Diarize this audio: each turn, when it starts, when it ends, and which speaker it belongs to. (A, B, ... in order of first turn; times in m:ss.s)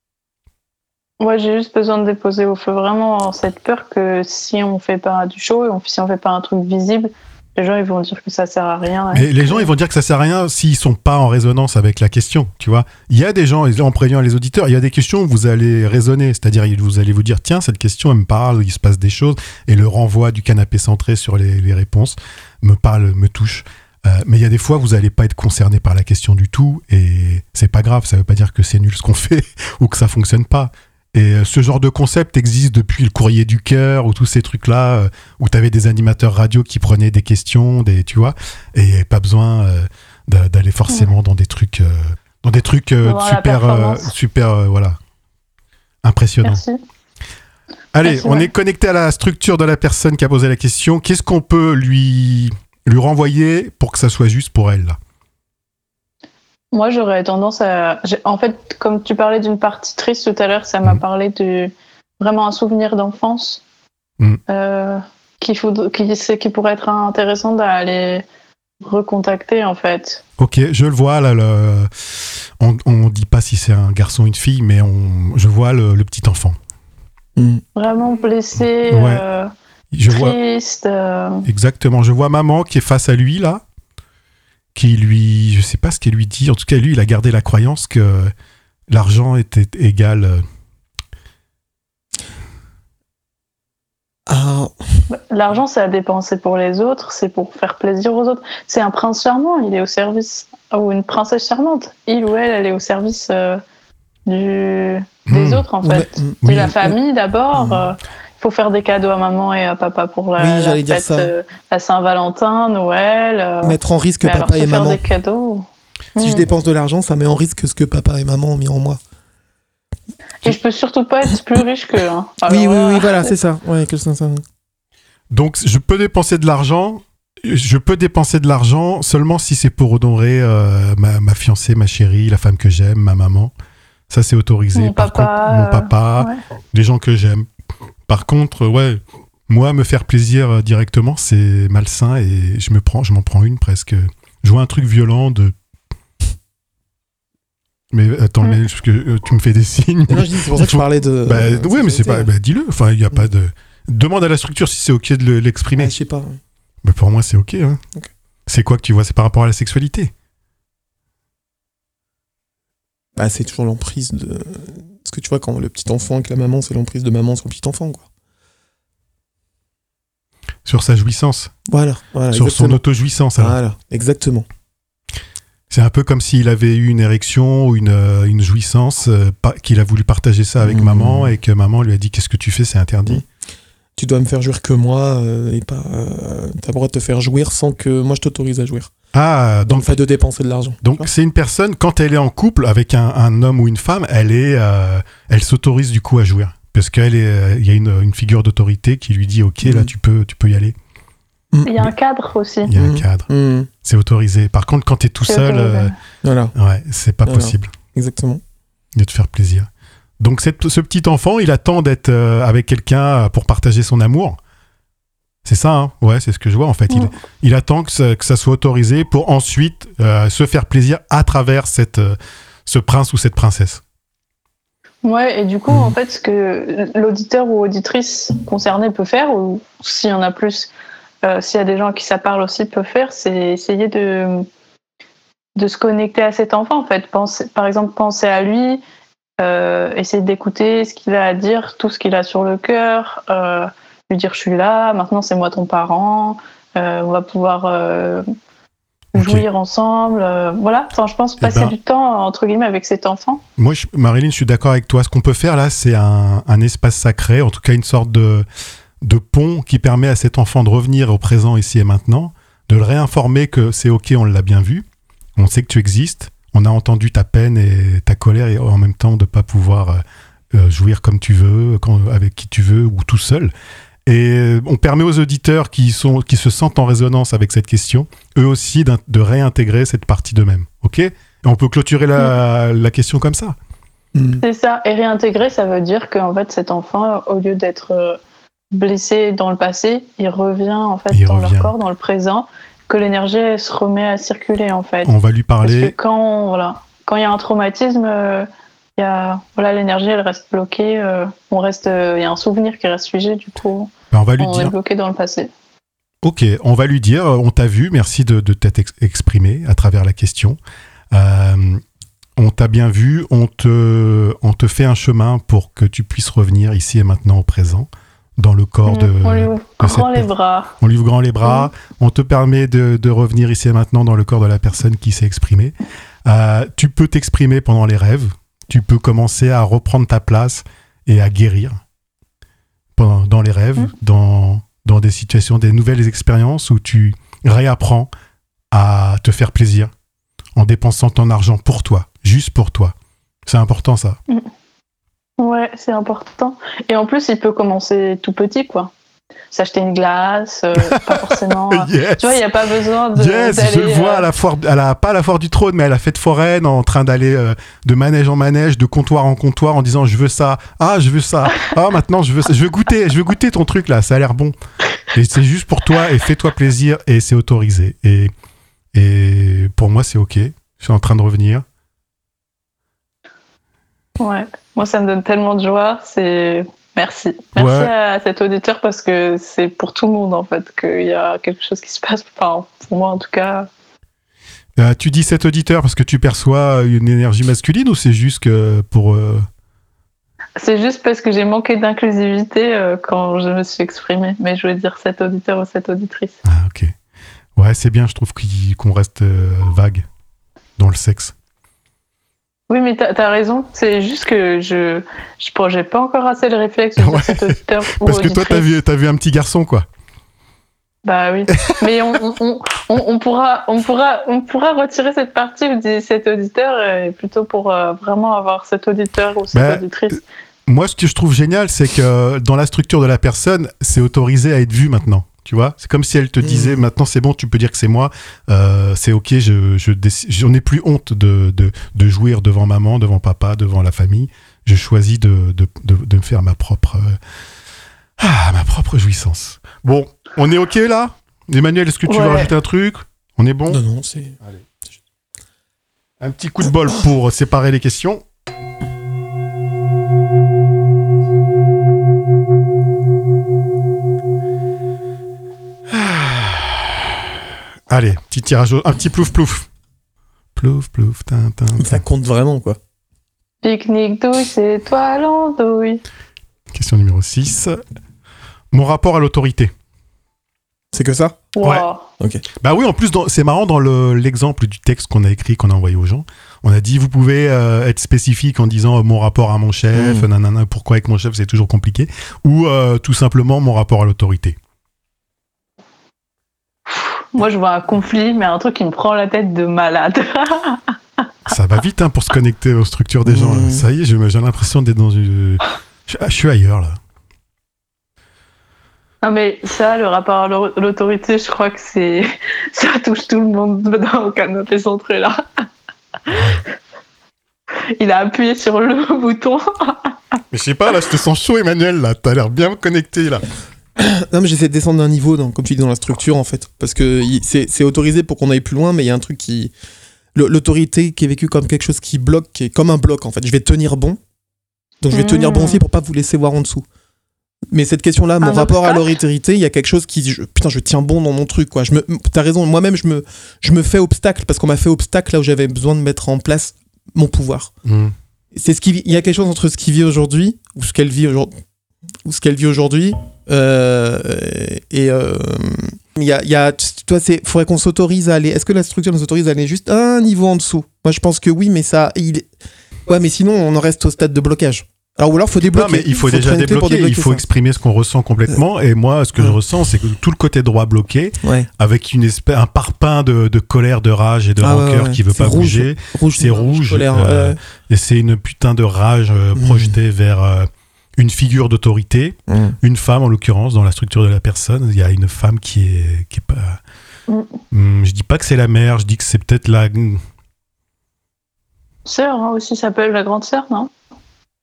0:01.2-0:09.7 A
0:09.1-0:45.0 B
0:43.0-0:44.1 A
0:46.0-0:46.6 B
0:46.4-0:46.8 A
0:47.9-0:55.0 B
0:48.0-0:48.5 A
0:56.7-1:03.6 A
1:04.5-1:08.2 A
1:08.8-1:10.2 A
1:10.4-1:16.6 B
1:17.4-1:17.6 C
1:17.8-1:19.5 A
1:18.9-1:19.2 B
1:19.9-1:20.4 B
1:20.1-1:21.4 A
1:21.4-1:23.6 B
1:24.7-1:28.3 B
1:28.9-1:30.4 B
1:34.3-1:35.0 C
1:35.1-1:43.6 A
1:44.3-1:55.6 A
1:45.3-1:45.6 B
1:45.8-1:46.9 C
1:46.4-1:46.8 B
1:47.5-1:47.9 C
1:50.4-1:51.3 C
1:53.6-1:55.0 C
1:56.2-1:56.4 A
1:56.2-1:59.0 C
2:00.4-2:03.3 A
2:02.5-2:04.4 C
2:05.3-2:13.5 B
2:14.1-2:17.5 B
2:14.7-2:16.4 A
2:18.1-2:25.5 B
2:27.9-2:35.9 B
2:30.1-2:32.3 C
2:35.8-2:36.4 C
2:36.8-2:37.8 B
2:38.5-2:40.1 B
2:43.2-2:48.0 C
2:50.6-2:51.5 B
2:51.7-2:52.8 C
2:52.3-2:53.6 B
2:53.4-2:54.4 C
2:55.7-3:03.2 B
3:00.6-3:01.4 C
3:04.0-3:08.9 C
3:09.1-3:10.0 B
3:09.6-3:11.1 C
3:10.8-3:20.7 B
3:19.6-3:19.9 C
3:21.5-3:21.9 C
3:21.6-3:22.7 A
3:22.7-3:23.3 B
3:22.7-3:23.7 C
3:23.8-3:25.9 B
3:25.2-3:25.9 A
3:26.2-3:26.5 C
3:26.6-3:27.7 B
3:27.2-3:28.4 C
3:28.9-3:34.4 B
3:35.4-3:43.8 B
3:45.0-3:50.7 A
3:51.2-3:54.4 A
3:55.6-3:58.8 A
3:59.4-4:08.2 A
4:09.1-4:13.4 A
4:09.2-4:09.4 B
4:11.4-4:11.7 B
4:13.6-4:18.4 B
4:19.0-4:24.8 B
4:25.4-4:30.0 B
4:30.5-4:33.5 B
4:34.0-4:43.6 B
4:44.1-4:44.4 C
4:44.4-4:48.2 A
4:48.7-4:55.1 A
4:51.1-4:51.7 B
4:55.0-4:55.9 B
4:55.6-5:05.5 A
5:04.1-5:04.7 B
5:06.2-5:10.6 B
5:11.1-5:11.8 B
5:12.4-5:20.3 B
5:18.8-5:20.7 A
5:20.8-5:31.8 B
5:32.9-5:38.1 B
5:38.7-5:39.9 B
5:40.6-5:42.9 B
5:43.5-5:44.2 B
5:45.4-5:48.9 A
5:49.5-5:54.2 A
5:50.8-6:04.5 B
6:05.1-6:08.3 B
6:08.9-6:11.6 B
6:14.2-6:23.7 A
6:17.6-6:17.9 B
6:24.8-6:29.5 B
6:30.6-6:36.4 A
6:36.4-6:36.9 B
6:37.6-6:40.0 B
6:40.8-6:41.3 B
6:42.7-6:48.7 A
6:47.0-6:49.8 B
6:51.0-7:00.2 A
6:59.5-6:59.8 B
7:00.7-7:17.2 B
7:06.4-7:06.8 C
7:18.2-7:23.8 B
7:22.1-7:22.5 A
7:23.7-7:24.4 C
7:26.2-7:28.2 B
7:35.9-7:37.1 B
7:37.9-7:39.7 B
7:40.5-7:42.0 B
7:41.8-7:42.8 C
7:43.6-7:46.0 A
7:46.7-7:47.8 B
7:48.7-7:49.7 B
7:50.9-7:51.5 C
7:51.5-7:52.0 A
7:51.6-7:51.9 B
7:52.2-7:52.4 C
7:52.6-8:04.6 B
7:59.9-8:00.3 C
8:06.9-8:10.8 A
8:11.5-8:17.0 B
8:13.2-8:13.8 C
8:19.2-8:25.4 A
8:26.3-8:26.6 B
8:28.0-8:30.1 A
8:30.5-8:33.4 B
8:34.0-8:39.7 C
8:40.3-8:44.2 C
8:45.0-8:46.8 C
8:45.1-8:45.8 A
8:47.7-8:57.7 C
8:48.4-8:49.1 A
8:57.8-8:58.1 B
8:58.5-9:01.5 C
9:02.2-9:12.5 C
9:13.0-9:17.4 C
9:15.6-9:36.8 B
9:21.4-9:21.7 C
9:24.6-9:27.6 C
9:29.6-9:29.9 C
9:32.5-9:32.8 C
9:37.7-9:40.2 B
9:42.0-9:43.9 A